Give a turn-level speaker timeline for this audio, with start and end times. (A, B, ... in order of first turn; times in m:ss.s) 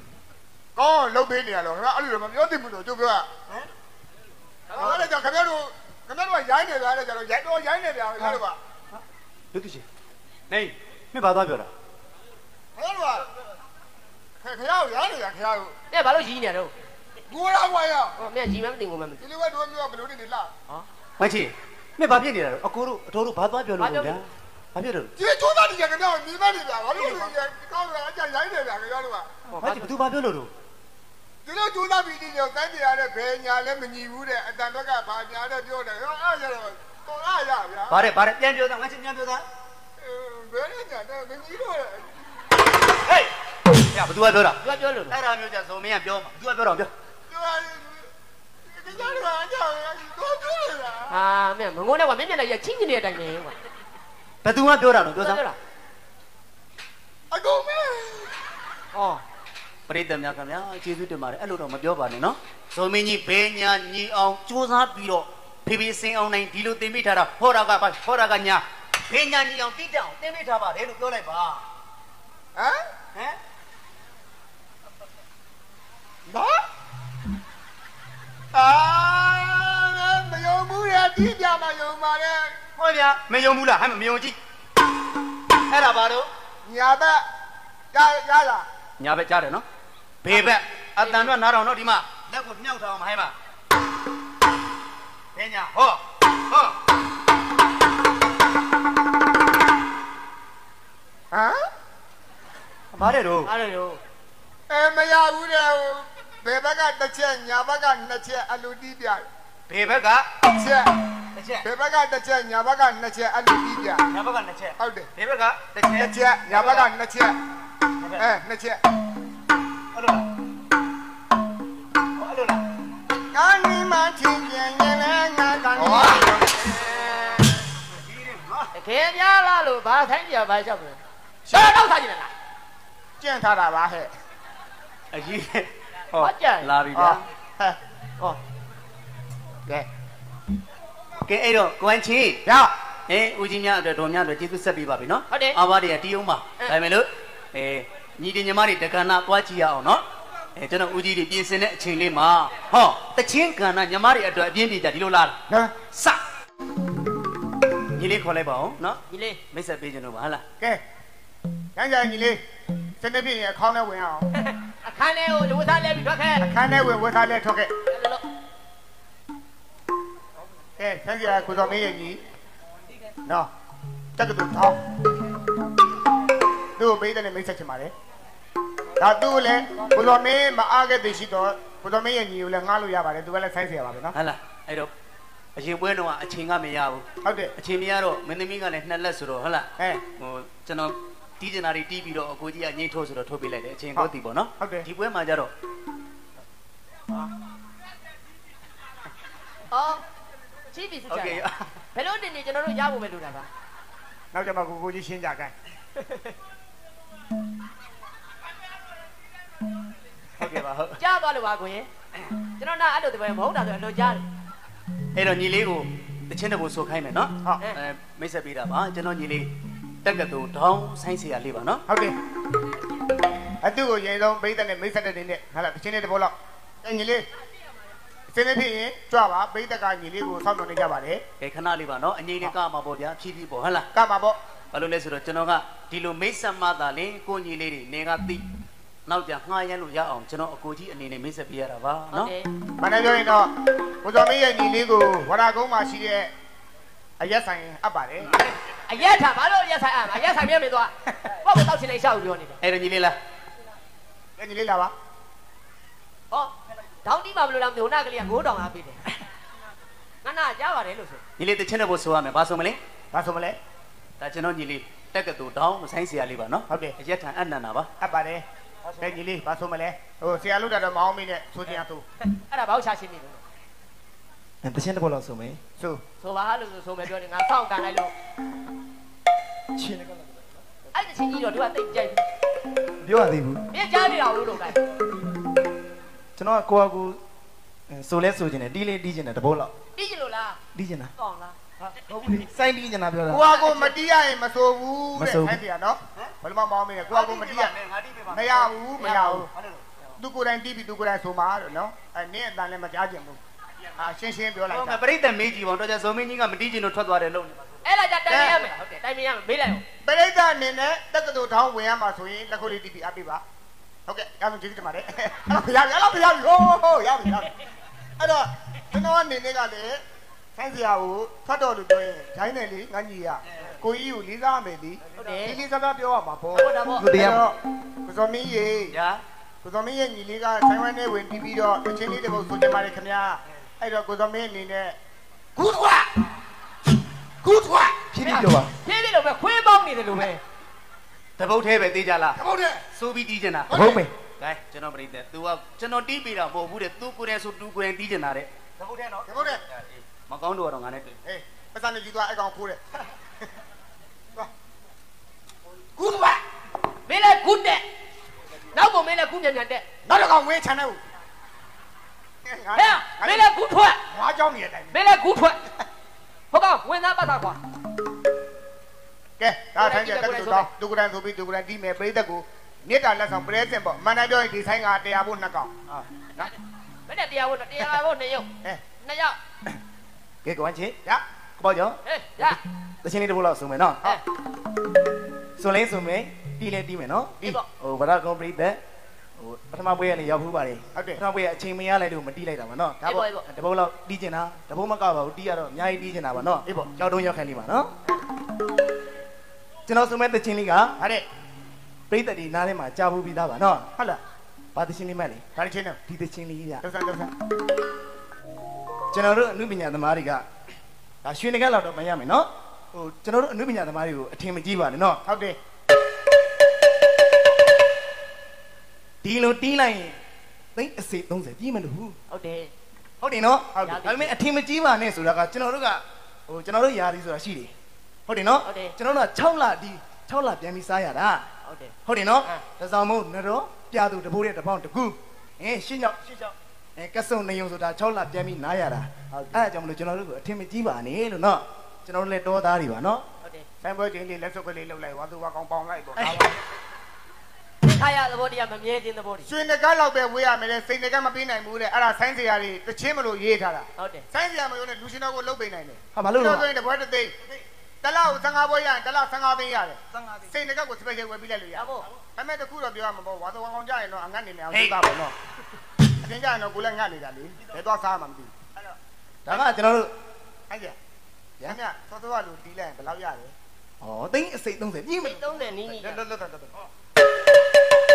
0:00.8-0:03.3 A
0:04.7-0:05.1 B
0:04.7-0:08.6 A
0:09.5-0:09.8 C
0:10.5-0:11.7 C
0:12.8-0:13.3 A
0:14.4-0:15.8 A
0:15.9-0:16.7 B
0:17.3-0:18.2 A
0:18.2-0:19.2 B
0:19.2-0:20.5 A
0:21.2-0:25.1 C
0:23.8-0:24.2 B
0:25.2-0:29.3 A
0:27.0-0:27.3 C
0:29.5-0:29.9 B
0:29.6-0:30.5 C
0:31.5-0:38.0 A
0:37.9-0:39.4 C
0:40.0-0:42.1 A
0:43.0-0:43.3 C
0:43.9-0:46.9 C
0:44.6-0:45.2 B
0:47.3-0:48.1 A
0:48.7-0:51.1 A
0:51.1-0:53.6 B
0:54.4-0:55.4 C
0:55.2-0:55.6 B
0:57.3-0:58.4 A
0:58.9-0:59.2 B
0:59.9-1:11.6 C
1:12.6-1:12.9 A
1:16.3-1:16.6 A
1:18.5-1:22.6 A
1:22.8-1:24.4 C
1:25.7-1:26.3 C
1:26.7-1:27.2 A
1:27.9-1:28.7 A
1:29.0-1:29.6 C
1:30.2-1:33.3 C
1:31.0-1:31.3 B
1:35.4-1:36.7 C
1:41.3-1:41.7 A
1:42.9-1:43.5 C
1:43.5-1:44.0 B
1:44.7-1:49.3 A
1:49.7-1:50.2 C
1:50.4-1:50.9 A
1:51.4-1:51.6 C
1:51.6-1:54.0 A
1:54.1-1:56.9 C
1:54.8-1:55.1 A
1:56.0-1:57.4 A
1:58.2-1:58.8 A
2:00.0-2:00.2 C
2:02.2-2:02.6 C
2:03.3-2:06.3 A
2:05.8-2:06.3 C
2:06.0-2:07.4 B
2:08.0-2:08.7 C
2:08.8-2:12.3 B
2:13.2-2:14.1 A
2:15.1-2:17.2 C
2:16.2-2:16.7 B
2:16.9-2:17.8 A
2:21.2-2:22.4 C
2:22.4-2:22.7 A
2:23.1-2:30.0 C
2:25.3-2:25.6 B
2:30.6-2:35.4 C
2:35.5-2:35.8 A
2:35.9-2:36.2 C
2:37.9-2:39.0 C
2:39.1-2:39.4 B
2:39.5-2:40.4 C
2:41.8-2:42.4 A
2:43.0-2:44.3 A
2:44.4-2:46.5 B
2:46.4-2:47.7 A
2:47.9-2:48.2 B
2:50.8-2:52.2 A
2:54.2-2:54.8 A
2:56.8-2:57.9 A
2:59.0-3:04.2 A
3:04.2-3:04.9 C
3:05.6-3:07.0 C
3:07.2-3:07.5 A
3:07.6-3:15.5 C
3:14.0-3:14.9 A
3:19.7-3:20.0 B
3:20.7-3:21.4 B
3:21.1-3:21.6 C
3:22.0-3:23.5 B
3:24.3-3:25.5 A
3:26.0-3:26.3 B
3:30.4-3:31.0 C
3:31.0-3:31.9 B
3:32.6-3:34.2 B
3:35.2-3:39.5 C
3:40.0-3:41.8 C
3:41.9-3:42.1 A
3:43.6-3:47.2 A
3:48.3-3:51.2 A
3:51.4-3:53.9 C
3:53.9-3:54.4 A
3:54.7-3:58.4 C
3:59.1-4:02.3 C
4:02.1-4:02.5 B
4:02.8-4:03.5 A
4:04.0-4:06.3 A
4:07.2-4:08.3 A
4:08.9-4:12.6 B
4:12.6-4:13.2 C
4:14.4-4:14.9 A
4:17.0-4:19.0 B
4:20.2-4:21.2 B
4:21.4-4:22.8 C
4:23.1-4:23.6 A
4:24.2-4:27.9 C
4:26.7-4:27.0 A
4:28.0-4:28.4 A
4:29.0-4:32.0 A
4:32.2-4:33.4 B
4:34.6-4:35.6 D
4:36.2-4:38.1 B
4:39.8-4:40.5 D
4:40.9-4:42.2 B
4:43.0-4:43.6 D
4:43.7-4:44.8 B
4:46.4-4:47.2 D
4:47.9-4:49.7 D
4:50.0-4:50.6 B
4:50.7-4:51.1 D
4:51.2-4:51.6 B
4:51.9-4:53.5 D
4:53.3-4:57.7 A
4:53.4-4:54.0 B
4:55.2-4:55.6 D
4:57.1-4:58.7 C
4:58.3-4:59.5 A
4:59.0-4:59.5 B
4:59.5-4:59.8 C
5:00.2-5:03.4 A
5:04.0-5:05.0 A
5:04.7-5:07.9 C
5:07.8-5:09.8 B
5:08.3-5:08.6 A
5:10.0-5:13.4 A
5:14.1-5:17.5 A
5:18.2-5:20.0 A
5:20.6-5:29.0 A
5:25.2-5:25.4 C
5:25.2-5:25.6 B
5:26.6-5:27.1 B
5:27.0-5:27.4 D
5:28.9-5:29.2 C
5:29.6-5:35.0 A
5:37.4-5:37.9 A
5:38.1-5:38.7 D
5:38.2-5:40.4 B
5:41.4-5:42.4 C
5:42.4-5:42.8 A
5:42.9-5:43.7 C
5:43.7-5:44.0 A
5:43.7-5:44.1 D
5:44.4-5:51.2 C
5:49.3-5:49.6 A
5:51.2-5:53.1 A
5:56.0-5:56.4 A
5:57.1-5:57.9 B
5:58.7-5:59.8 B
6:00.1-6:01.0 A
6:02.4-6:03.5 A
6:02.8-6:04.0 B
6:04.1-6:04.9 A
6:04.9-6:05.6 B
6:06.5-6:07.6 B
6:09.4-6:15.7 A
6:09.8-6:10.7 B
6:17.1-6:19.4 B
6:20.4-6:21.0 D
6:21.6-6:24.0 D
6:22.1-6:22.6 B
6:25.6-6:28.8 D
6:29.4-6:37.9 D
6:31.0-6:31.2 A
6:33.0-6:33.3 A
6:33.0-6:33.5 B
6:36.6-6:36.9 A
6:39.9-6:41.0 D
6:41.0-6:41.2 A
6:42.1-6:43.9 D
6:44.8-6:45.4 D
6:45.6-6:46.0 A
6:46.1-6:46.8 D
6:46.8-6:47.3 A
6:49.1-6:50.4 D
6:51.2-6:55.2 D
6:55.2-6:55.6 A
6:59.2-7:00.2 D
7:00.8-7:02.2 D
7:02.3-7:02.7 B
7:03.2-7:07.7 D
7:03.7-7:04.0 A
7:03.8-7:04.3 B
7:08.3-7:11.4 D
7:08.6-7:08.9 B
7:11.6-7:12.6 B
7:12.1-7:23.3 D
7:19.3-7:19.7 A
7:23.8-7:26.5 A
7:26.2-7:26.6 D
7:27.8-7:29.5 B
7:29.5-7:37.3 A
7:34.0-7:34.3 B
7:36.2-7:36.7 D
7:38.0-7:45.4 A
7:41.8-7:42.1 B
7:44.7-7:45.0 D
7:46.2-7:49.0 A
7:49.5-7:50.1 D
7:50.7-7:51.0 A
7:51.6-7:53.5 A
7:54.0-7:55.4 D
7:55.2-7:56.2 B
7:55.9-7:56.9 A